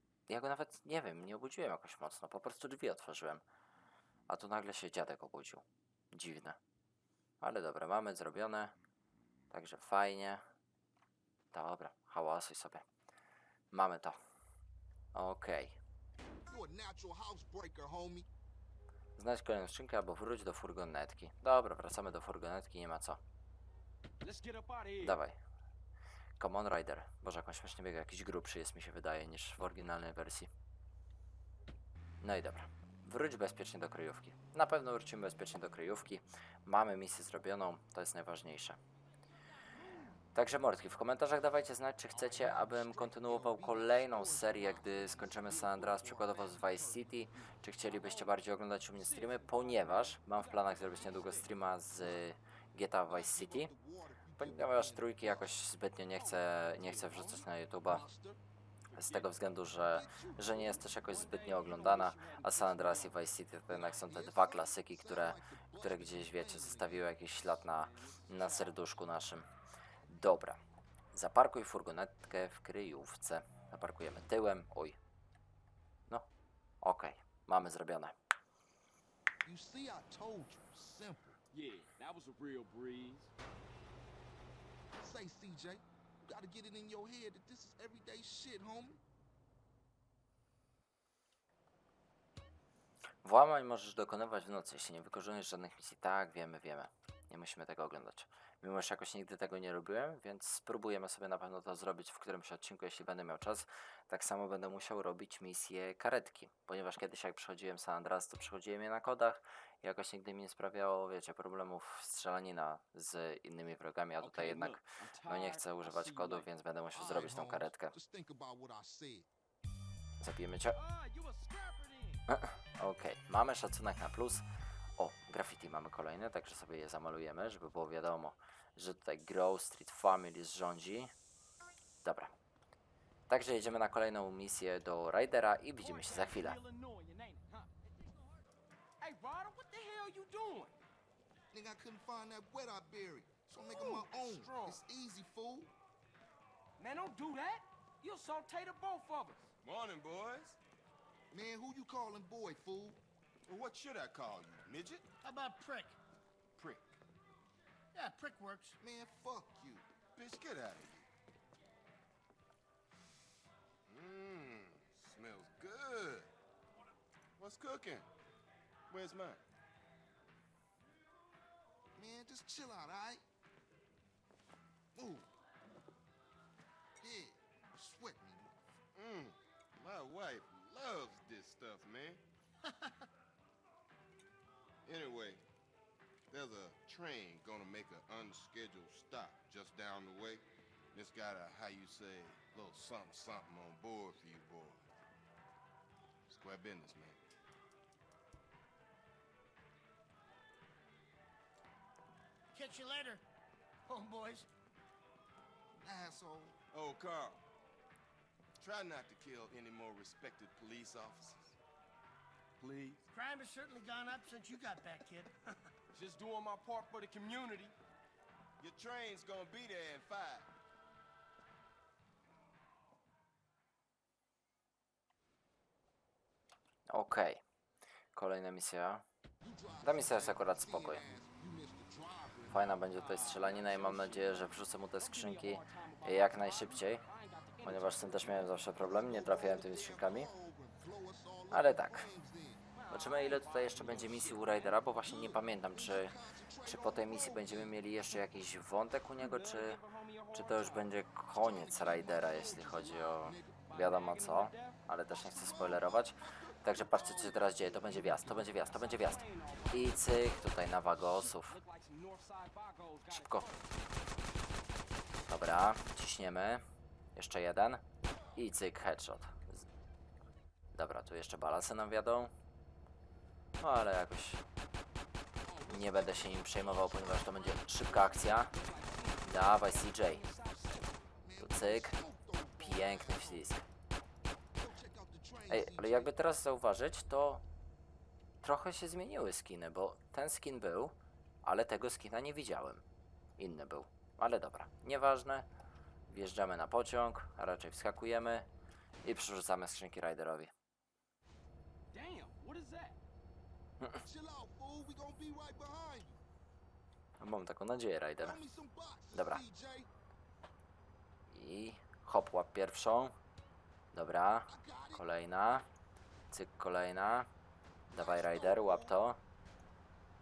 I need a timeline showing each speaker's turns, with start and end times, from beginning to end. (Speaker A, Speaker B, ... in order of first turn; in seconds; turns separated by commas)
Speaker A: 0.3-3.4, Speaker A: 4.3-6.6, Speaker A: 7.4-8.8, Speaker A: 9.5-10.4, Speaker A: 11.5-12.8, Speaker A: 13.7-14.2, Speaker A: 15.1-15.8, Speaker B: 16.5-18.3, Speaker A: 19.2-23.2, Speaker C: 24.2-25.2, Speaker A: 25.0-25.4, Speaker A: 26.4-30.5, Speaker A: 32.2-38.8, Speaker A: 40.3-53.7, Speaker B: 42.1-47.5, Speaker C: 47.9-48.4, Speaker C: 48.9-51.5, Speaker B: 53.1-55.5, Speaker A: 54.4-58.0, Speaker C: 56.1-57.5, Speaker B: 57.9-58.4, Speaker C: 58.9-59.4, Speaker A: 58.9-69.5, Speaker B: 59.9-60.5, Speaker C: 60.5-63.2, Speaker B: 63.7-67.1, Speaker C: 67.7-68.7, Speaker A: 70.1-70.6, Speaker A: 71.1-75.0, Speaker A: 76.8-78.1, Speaker B: 79.4-81.4, Speaker C: 81.5-83.3, Speaker B: 85.0-89.0, Speaker A: 93.2-117.9, Speaker C: 114.2-116.5, Speaker B: 116.9-119.3, Speaker A: 120.2-120.8, Speaker C: 120.7-122.2, Speaker A: 122.3-124.4, Speaker A: 125.0-131.1, Speaker A: 132.0-132.3, Speaker A: 133.3-136.6, Speaker C: 135.8-137.7, Speaker C: 139.0-140.8, Speaker B: 141.5-145.7, Speaker C: 143.6-144.8, Speaker C: 146.8-149.4, Speaker D: 149.6-150.6, Speaker B: 151.3-153.0, Speaker D: 153.5-155.1, Speaker E: 155.2-156.0, Speaker D: 156.6-156.8, Speaker E: 157.9-158.8, Speaker B: 158.8-159.8, Speaker D: 160.2-161.1, Speaker D: 163.9-166.3, Speaker D: 167.4-168.1, Speaker D: 168.9-169.4, Speaker B: 171.9-173.2, Speaker B: 174.9-175.3, Speaker B: 177.0-178.5, Speaker D: 178.9-182.2, Speaker D: 184.8-185.4, Speaker D: 186.3-194.9, Speaker D: 196.3-197.2, Speaker E: 202.5-203.2, Speaker E: 203.9-204.5, Speaker B: 205.8-206.6, Speaker D: 206.7-207.4, Speaker D: 208.6-211.6, Speaker D: 212.6-213.0, Speaker E: 213.1-215.6, Speaker C: 215.9-217.7, Speaker D: 218.6-220.5, Speaker A: 226.9-227.4, Speaker A: 228.1-229.0, Speaker B: 229.4-232.8, Speaker A: 229.8-231.0, Speaker A: 232.5-237.0, Speaker C: 232.8-238.5, Speaker A: 237.6-240.3, Speaker B: 238.6-242.6, Speaker A: 241.5-242.1, Speaker C: 242.7-244.8, Speaker A: 242.9-249.8, Speaker B: 245.0-247.8, Speaker C: 249.2-250.9, Speaker A: 250.3-261.6, Speaker B: 251.3-253.6, Speaker C: 253.7-254.8, Speaker B: 255.1-258.6, Speaker C: 258.6-263.6, Speaker A: 263.1-263.4, Speaker A: 265.3-266.6, Speaker A: 267.1-267.8, Speaker A: 268.3-269.7, Speaker A: 270.7-272.3, Speaker A: 273.6-274.4, Speaker B: 275.4-278.3, Speaker A: 275.7-278.5, Speaker C: 278.3-281.0, Speaker A: 279.3-280.2, Speaker B: 281.2-283.5, Speaker A: 281.4-281.9, Speaker A: 282.6-283.6, Speaker B: 284.6-286.1, Speaker A: 285.5-287.4, Speaker A: 288.4-292.8, Speaker A: 293.4-295.5, Speaker A: 296.1-298.5, Speaker A: 299.0-300.5, Speaker C: 301.9-303.0, Speaker B: 304.0-306.2, Speaker A: 307.2-308.4, Speaker B: 308.2-309.9, Speaker A: 309.1-309.4, Speaker A: 311.3-313.1, Speaker A: 313.9-315.6, Speaker B: 314.5-315.0, Speaker A: 316.3-317.3, Speaker A: 317.9-319.2, Speaker B: 317.9-319.0